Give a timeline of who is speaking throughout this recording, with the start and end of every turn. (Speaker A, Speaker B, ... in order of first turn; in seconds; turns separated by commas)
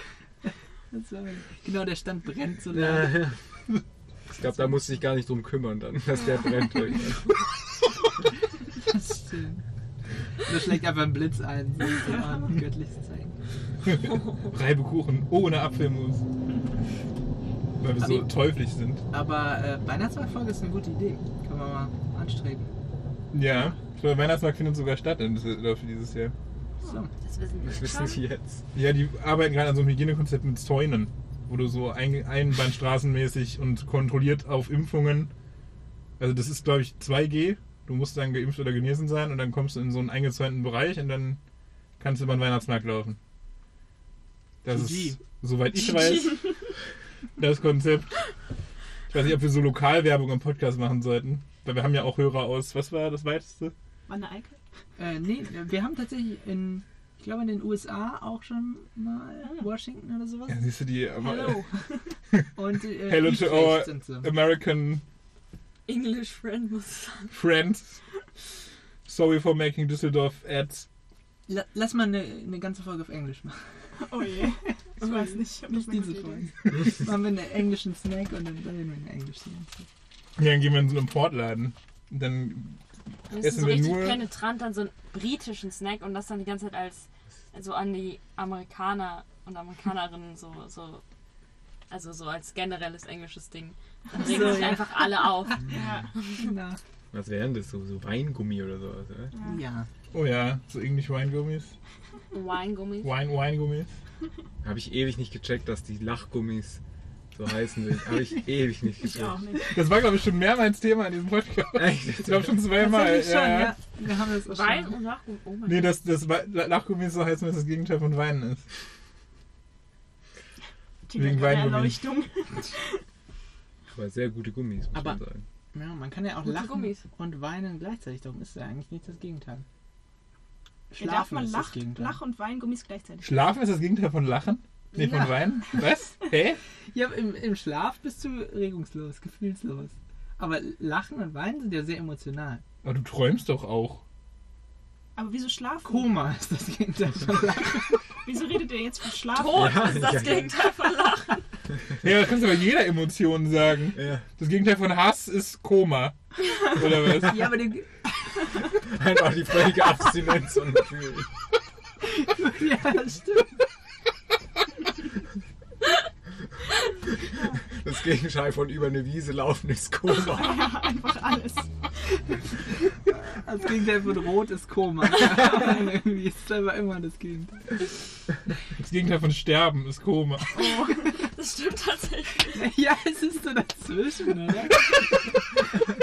Speaker A: 0.9-3.3, Speaker B: 2.7-3.4, Speaker B: 4.3-7.3, Speaker A: 8.8-9.6, Speaker A: 10.4-13.3, Speaker C: 13.8-16.2, Speaker D: 14.1-14.4, Speaker C: 17.8-19.0, Speaker A: 18.0-18.3, Speaker A: 19.1-22.7, Speaker C: 23.3-26.3, Speaker A: 26.8-27.1, Speaker D: 27.2-28.2, Speaker B: 27.6-28.6, Speaker C: 28.7-35.3, Speaker C: 36.2-41.4, Speaker C: 42.0-43.2, Speaker C: 44.6-46.5, Speaker A: 44.7-45.2, Speaker C: 47.4-48.2, Speaker C: 49.1-53.7, Speaker E: 54.1-54.6, Speaker A: 55.0-60.6, Speaker C: 60.5-61.6, Speaker E: 61.2-62.1, Speaker C: 62.3-65.0, Speaker A: 62.5-64.3, Speaker D: 65.9-67.3, Speaker C: 67.3-68.0, Speaker C: 69.0-70.8, Speaker A: 71.5-73.6, Speaker E: 74.0-76.5, Speaker D: 75.0-75.4, Speaker A: 75.7-79.9, Speaker C: 80.4-84.2, Speaker D: 83.3-91.0, Speaker D: 91.9-96.5, Speaker A: 94.1-96.8, Speaker E: 94.2-94.6, Speaker E: 95.7-96.1, Speaker B: 97.1-99.3, Speaker E: 99.3-99.6, Speaker A: 99.4-99.9, Speaker C: 100.1-101.7, Speaker D: 102.3-103.1, Speaker C: 103.0-103.9, Speaker B: 104.6-106.8, Speaker B: 107.3-109.4, Speaker E: 109.0-109.8, Speaker C: 109.7-113.7, Speaker B: 111.7-112.6, Speaker A: 112.7-114.9, Speaker D: 114.5-116.0, Speaker C: 115.7-118.6, Speaker E: 121.1-123.0, Speaker C: 121.1-122.1, Speaker B: 123.9-125.4, Speaker A: 124.9-125.2, Speaker A: 125.7-129.6, Speaker D: 126.4-127.0, Speaker A: 130.9-132.2, Speaker E: 131.0-133.4, Speaker C: 133.2-136.6, Speaker A: 134.9-135.4, Speaker A: 136.9-142.6, Speaker C: 142.8-144.0, Speaker E: 145.2-146.1, Speaker A: 145.8-148.2, Speaker E: 148.2-150.2, Speaker D: 149.3-151.4, Speaker B: 149.5-150.5, Speaker C: 152.0-157.6, Speaker B: 153.9-154.2, Speaker A: 157.2-158.1, Speaker B: 158.7-161.3, Speaker A: 162.0-163.6, Speaker B: 167.7-170.7, Speaker E: 170.3-171.7, Speaker A: 173.1-177.7, Speaker C: 178.8-180.6, Speaker E: 180.5-181.1, Speaker D: 181.0-182.6, Speaker A: 182.5-185.3